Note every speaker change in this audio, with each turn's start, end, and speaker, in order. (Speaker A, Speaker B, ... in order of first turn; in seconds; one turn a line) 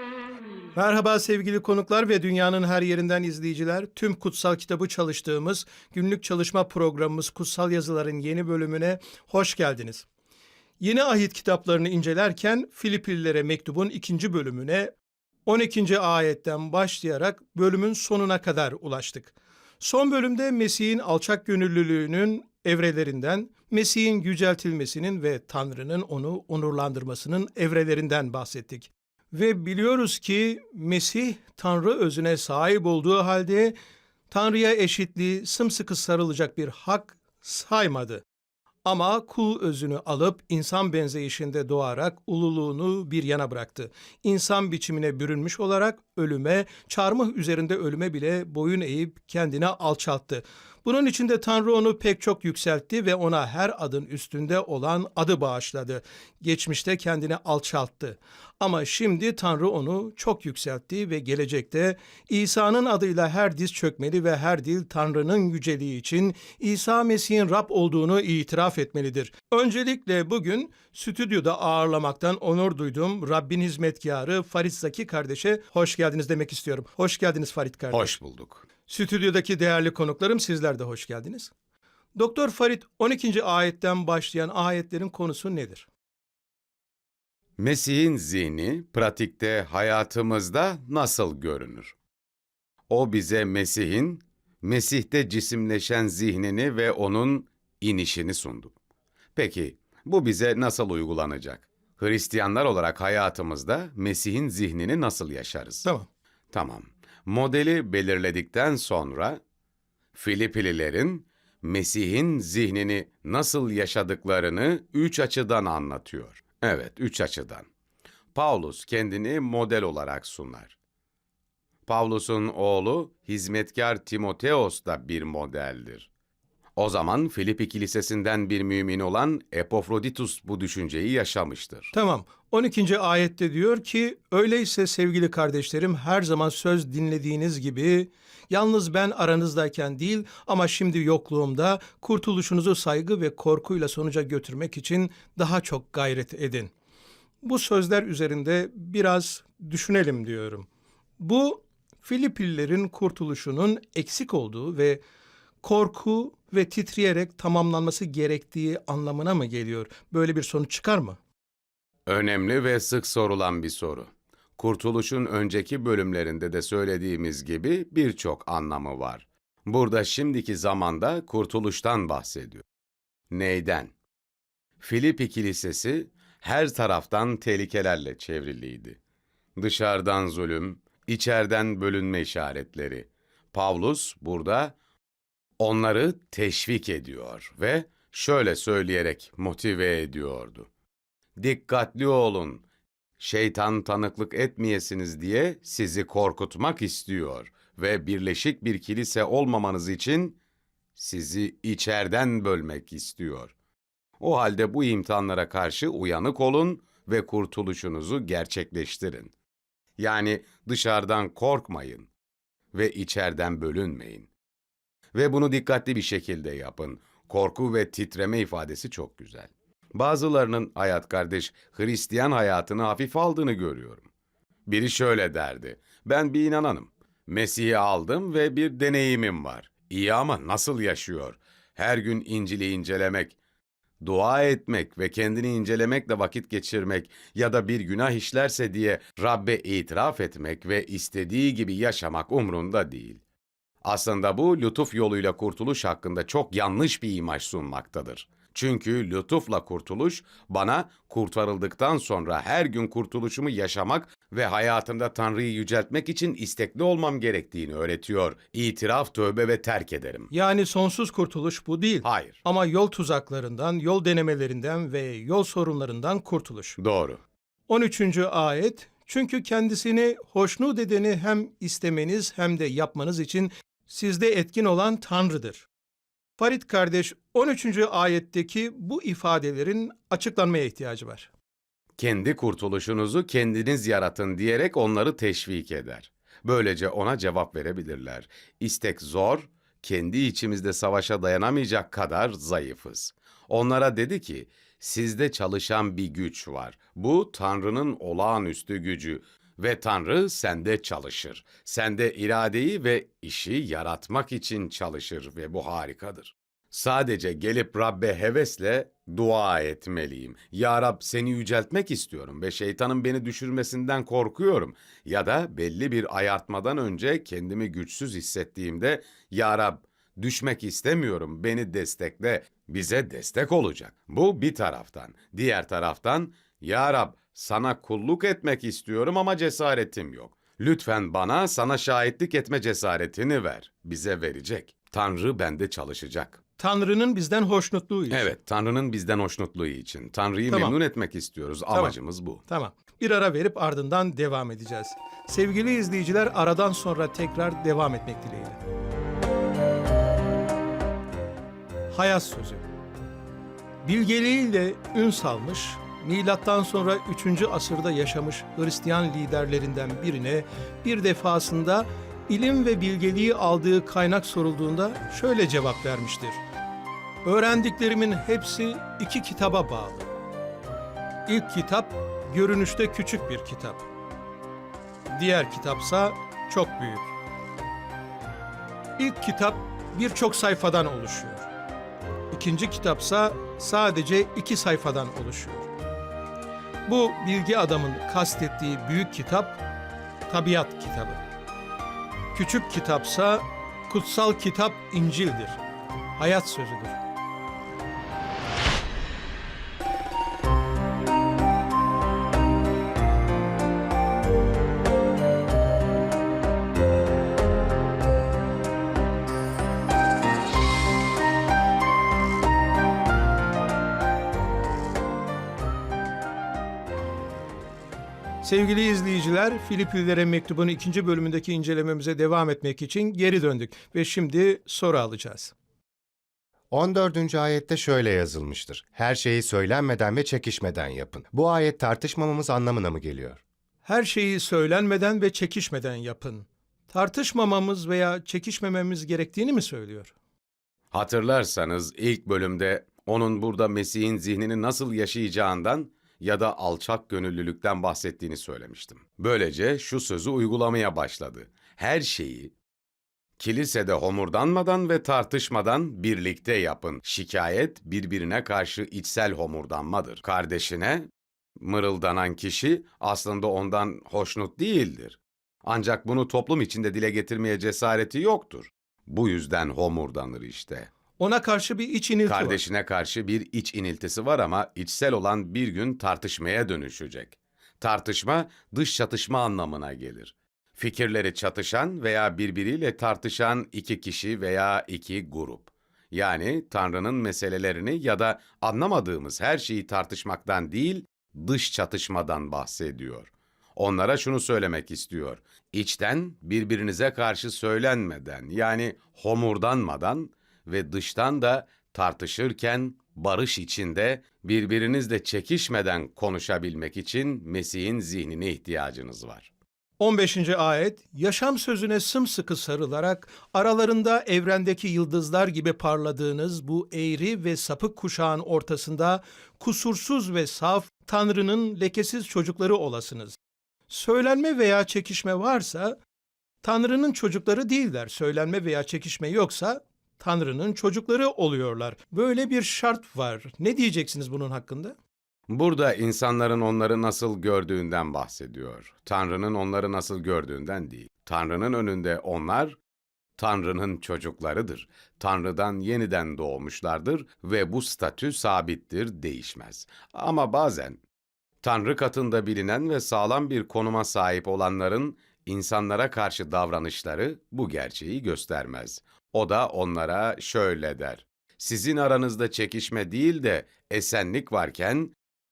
Speaker A: 0.8-10.1
Speaker A: 10.8-14.9
Speaker A: 15.5-33.8
Speaker A: 34.3-38.2
Speaker A: 38.9-78.1
Speaker B: 77.9-78.7
Speaker A: 78.9-81.5
Speaker A: 82.2-85.9
Speaker B: 87.6-92.0
Speaker B: 92.9-98.8
Speaker B: 99.4-105.9
Speaker B: 106.5-109.4
Speaker B: 110.2-117.7
Speaker B: 118.3-120.8
Speaker B: 121.9-126.1
Speaker B: 126.8-131.9
Speaker A: 131.9-146.7
Speaker A: 147.4-150.7
Speaker A: 151.2-155.0
Speaker A: 155.6-161.2
Speaker B: 162.1-172.6
Speaker B: 173.3-173.9
Speaker B: 174.8-179.0
Speaker B: 179.6-184.8
Speaker B: 185.6-190.7
Speaker B: 191.4-192.6
Speaker B: 193.2-200.4
Speaker B: 201.0-203.5
Speaker B: 204.2-209.3
Speaker B: 210.0-212.1
Speaker B: 212.7-214.3
Speaker B: 215.1-224.1
Speaker B: 224.7-233.4
Speaker B: 234.0-243.2
Speaker B: 243.8-260.3
Speaker A: 260.3-266.8
Speaker B: 262.0-262.4
Speaker B: 266.8-267.2
Speaker A: 267.7-275.7
Speaker A: 276.4-281.3
Speaker B: 282.0-336.4
Speaker A: 336.6-338.3
Speaker B: 338.1-342.4
Speaker A: 340.5-340.8
Speaker A: 342.5-348.6
Speaker A: 351.9-352.6
Speaker A: 353.8-366.4
Speaker A: 367.2-370.1
Speaker A: 371.3-373.9
Speaker A: 375.1-377.1
Speaker A: 379.0-381.5
Speaker A: 382.3-385.7
Speaker A: 386.9-389.6
Speaker A: 390.3-391.2
Speaker A: 392.3-395.6
Speaker A: 396.2-397.0
Speaker A: 418.4-425.5
Speaker C: 426.7-433.4
Speaker A: 433.9-440.1
Speaker B: 440.9-452.5
Speaker B: 453.4-470.9
Speaker A: 471.2-472.6
Speaker B: 472.3-509.5
Speaker A: 510.0-523.4
Speaker A: 523.9-526.0
Speaker A: 526.6-535.0
Speaker B: 535.5-542.8
Speaker B: 543.4-551.0
Speaker B: 551.6-565.1